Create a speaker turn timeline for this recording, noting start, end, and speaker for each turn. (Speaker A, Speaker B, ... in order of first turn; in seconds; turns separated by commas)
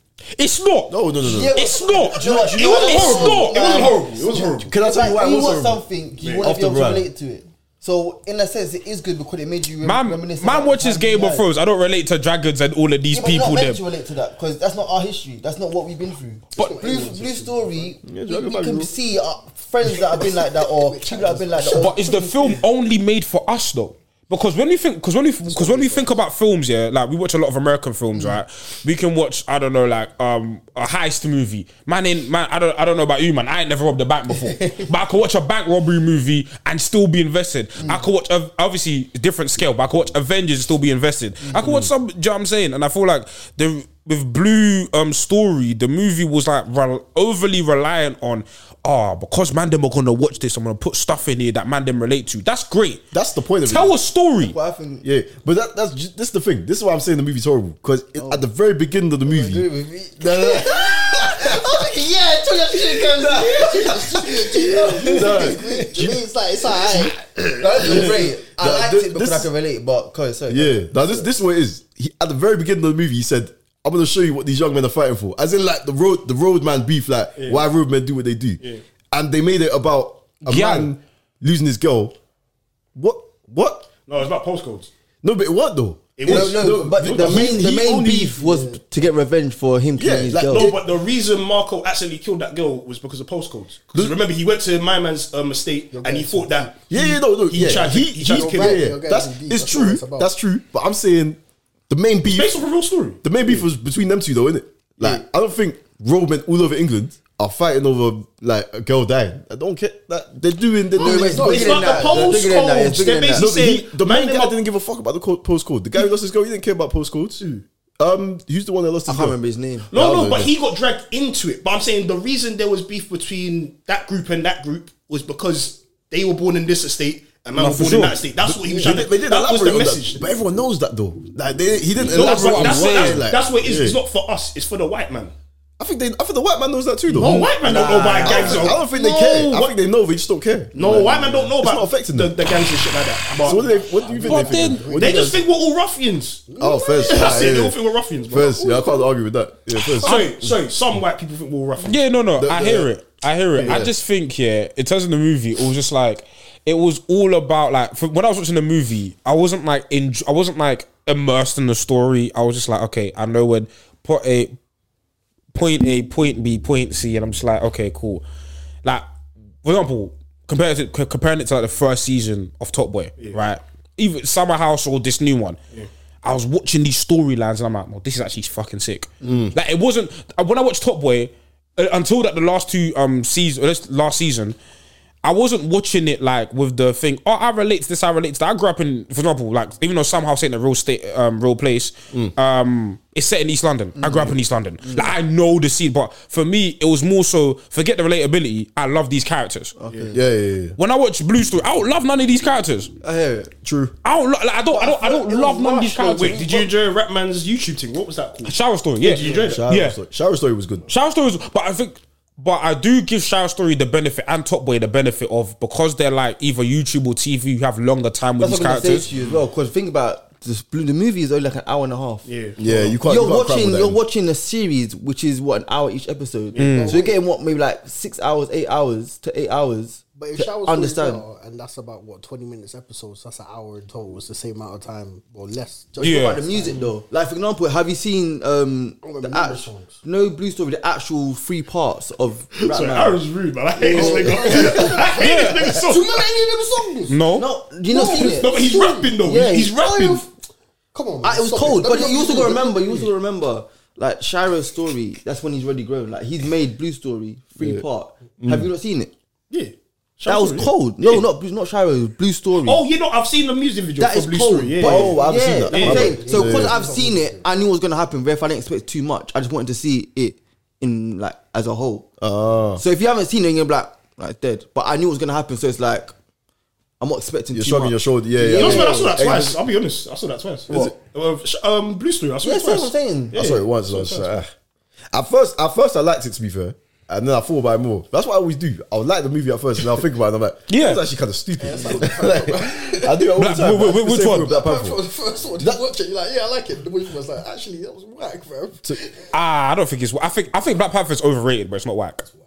Speaker A: 0.4-0.9, Speaker B: 0.9-1.6, Speaker C: 1.2-11.4, Speaker A: 1.5-3.9, Speaker B: 2.1-3.4, Speaker D: 2.5-4.7, Speaker B: 4.6-5.8, Speaker D: 6.2-6.5, Speaker B: 6.4-7.1, Speaker A: 9.8-13.8, Speaker C: 13.1-22.3, Speaker E: 16.6-17.9, Speaker B: 18.1-18.9, Speaker E: 19.8-22.6, Speaker A: 21.7-53.0, Speaker E: 25.5-26.1, Speaker C: 34.6-34.9, Speaker B: 41.5-41.9, Speaker B: 53.1-53.9, Speaker A: 53.6-54.6, Speaker C: 54.4-55.0, Speaker B: 55.0-59.6, Speaker C: 59.3-61.6, Speaker B: 60.2-61.5, Speaker E: 60.2-67.2, Speaker B: 62.9-66.2, Speaker C: 63.4-63.9, Speaker C: 64.7-65.6, Speaker C: 67.6-71.3, Speaker E: 67.7-68.2, Speaker B: 67.8-69.5, Speaker B: 70.5-82.1, Speaker D: 77.4-77.6, Speaker A: 80.4-80.9, Speaker B: 82.9-83.9, Speaker D: 84.1-84.9, Speaker B: 85.2-88.4, Speaker D: 86.2-87.5, Speaker C: 86.2-90.7, Speaker E: 88.4-88.8, Speaker B: 90.0-90.8, Speaker D: 90.5-98.9, Speaker E: 95.9-96.7, Speaker B: 96.9-102.5, Speaker E: 98.2-100.3, Speaker D: 102.2-103.6, Speaker B: 103.2-111.7, Speaker E: 111.0-112.8, Speaker C: 111.0-113.5, Speaker D: 111.3-114.5, Speaker B: 113.3-117.4, Speaker D: 117.4-117.6, Speaker B: 118.0-119.4, Speaker C: 119.1-119.9, Speaker B: 119.9-120.5, Speaker D: 119.9-130.2, Speaker A: 127.6-128.2, Speaker B: 127.6-134.0, Speaker D: 132.0-135.3, Speaker A: 132.1-133.2, Speaker B: 135.8-137.6, Speaker D: 137.1-139.7, Speaker C: 137.6-138.8, Speaker B: 138.2-142.4, Speaker D: 140.7-144.0, Speaker C: 140.8-141.4, Speaker B: 143.4-145.4, Speaker E: 143.6-145.4, Speaker A: 144.3-144.9, Speaker D: 144.9-146.4, Speaker E: 146.5-147.7, Speaker B: 146.6-147.8, Speaker D: 147.0-148.6, Speaker B: 148.3-150.5, Speaker E: 148.4-149.1, Speaker D: 150.0-152.0, Speaker A: 150.1-150.4, Speaker A: 151.8-164.6, Speaker B: 152.4-152.9, Speaker B: 153.6-153.9, Speaker D: 153.6-153.8, Speaker A: 165.5-168.2, Speaker A: 169.6-175.6, Speaker A: 176.2-184.6, Speaker B: 179.2-179.5, Speaker A: 185.2-199.8, Speaker C: 194.0-195.1, Speaker C: 199.8-200.2, Speaker B: 200.1-200.8, Speaker A: 200.8-202.9, Speaker C: 203.0-203.6, Speaker B: 203.6-203.9, Speaker A: 204.0-206.7, Speaker C: 204.8-205.6, Speaker D: 205.0-209.7, Speaker A: 208.4-210.0, Speaker B: 209.4-210.9, Speaker A: 210.9-219.1, Speaker C: 218.4-231.2, Speaker D: 222.3-222.6, Speaker B: 222.6-224.0, Speaker A: 226.6-227.0, Speaker E: 226.6-227.2, Speaker E: 230.1-236.9, Speaker A: 236.0-236.4, Speaker C: 236.0-243.2, Speaker E: 239.0-240.0, Speaker D: 242.5-246.2, Speaker E: 243.8-247.2, Speaker C: 243.9-245.1, Speaker A: 245.2-245.7, Speaker A: 247.1-247.5, Speaker C: 247.3-248.6, Speaker E: 247.9-250.3, Speaker D: 247.9-250.3, Speaker C: 249.2-249.8, Speaker E: 250.9-253.1, Speaker C: 251.2-259.1, Speaker B: 258.4-258.7, Speaker D: 259.5-261.3, Speaker C: 260.3-262.8, Speaker D: 262.6-265.1, Speaker C: 264.0-272.1, Speaker B: 264.8-266.8, Speaker E: 264.9-267.5, Speaker D: 265.7-266.1, Speaker B: 272.2-272.8, Speaker C: 272.8-276.1, Speaker C: 277.0-278.9, Speaker B: 277.5-279.6, Speaker D: 278.5-284.4, Speaker B: 280.7-280.9, Speaker C: 282.4-283.4, Speaker B: 283.3-284.5, Speaker B: 285.1-295.0, Speaker A: 290.7-291.0, Speaker E: 291.6-293.3, Speaker A: 293.4-294.5, Speaker E: 294.4-299.2, Speaker B: 295.6-295.9, Speaker A: 299.3-302.3